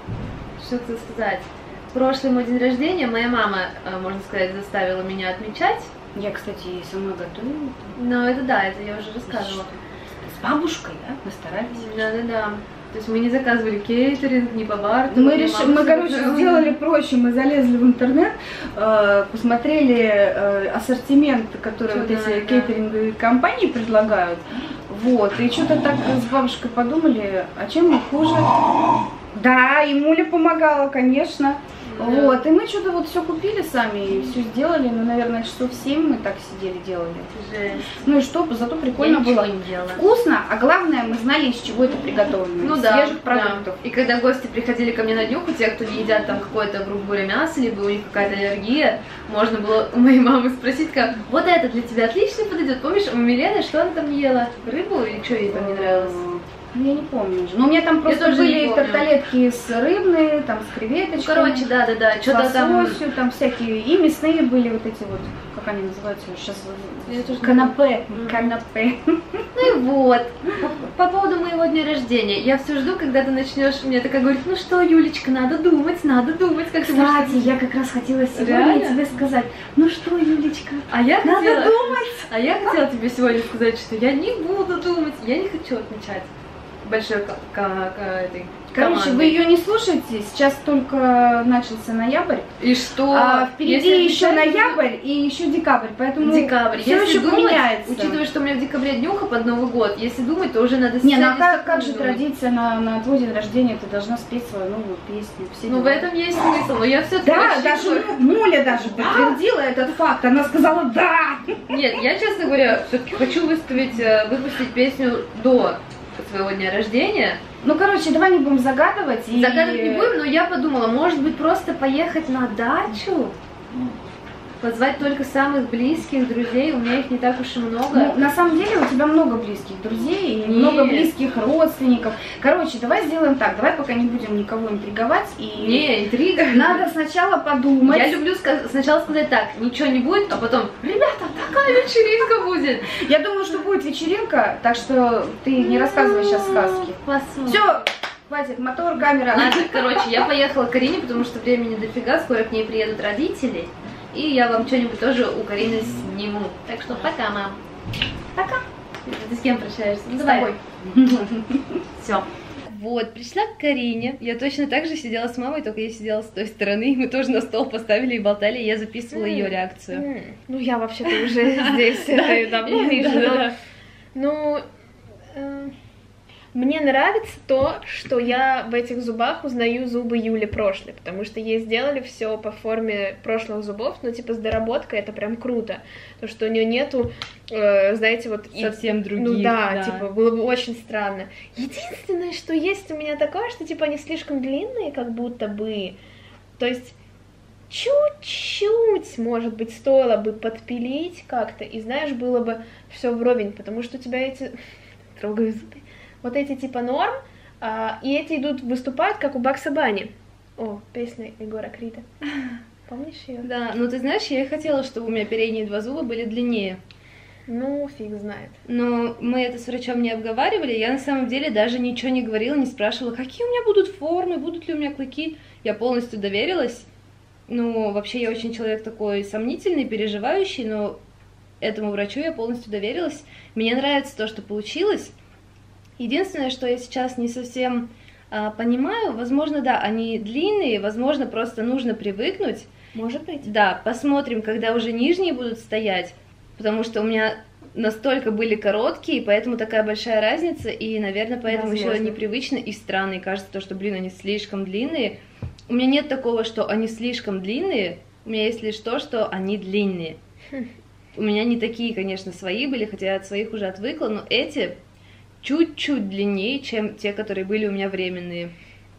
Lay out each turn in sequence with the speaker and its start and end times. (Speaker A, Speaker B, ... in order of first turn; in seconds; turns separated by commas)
Speaker A: 0.6-5.9, Speaker B: 6.1-7.9, Speaker A: 7.9-9.7, Speaker B: 9.2-11.9, Speaker A: 11.7-16.7, Speaker B: 15.1-28.8, Speaker A: 21.9-22.7, Speaker B: 29.3-37.3, Speaker A: 31.8-32.5, Speaker A: 37.3-38.0, Speaker B: 37.9-43.8, Speaker A: 38.9-40.0, Speaker A: 42.6-56.2, Speaker B: 55.5-69.5, Speaker A: 58.0-59.1, Speaker A: 61.2-63.0, Speaker A: 67.0-68.5, Speaker A: 69.5-77.5, Speaker B: 76.8-82.3, Speaker A: 78.3-79.0, Speaker A: 80.9-86.3, Speaker A: 86.8-89.4, Speaker B: 88.7-92.5, Speaker A: 92.6-94.8, Speaker B: 93.1-98.2, Speaker A: 96.2-102.2, Speaker B: 101.0-106.1, Speaker A: 105.7-108.2, Speaker B: 107.2-111.6, Speaker A: 108.9-109.4, Speaker A: 111.7-117.4, Speaker B: 117.6-120.1, Speaker A: 119.3-123.3, Speaker A: 124.6-128.2, Speaker B: 127.9-135.9, Speaker A: 130.4-131.1, Speaker A: 135.6-136.9, Speaker B: 136.5-138.2, Speaker A: 137.8-142.9, Speaker B: 142.9-150.1, Speaker A: 145.6-147.8, Speaker A: 149.3-157.6, Speaker A: 158.3-160.5, Speaker B: 160.1-161.8, Speaker A: 162.0-170.1, Speaker C: 169.1-173.5, Speaker A: 171.1-173.6, Speaker C: 174.1-174.6, Speaker C: 175.3-175.7, Speaker C: 176.5-196.0, Speaker A: 188.5-190.1, Speaker C: 196.6-196.9, Speaker C: 197.7-212.1, Speaker C: 212.9-213.5, Speaker A: 213.4-216.8, Speaker C: 217.5-218.6, Speaker A: 218.7-226.9, Speaker A: 227.5-231.0, Speaker A: 231.6-235.1, Speaker A: 236.0-242.7, Speaker C: 242.9-243.5, Speaker A: 243.4-260.2, Speaker C: 251.4-252.2, Speaker A: 261.1-264.8, Speaker A: 265.4-268.5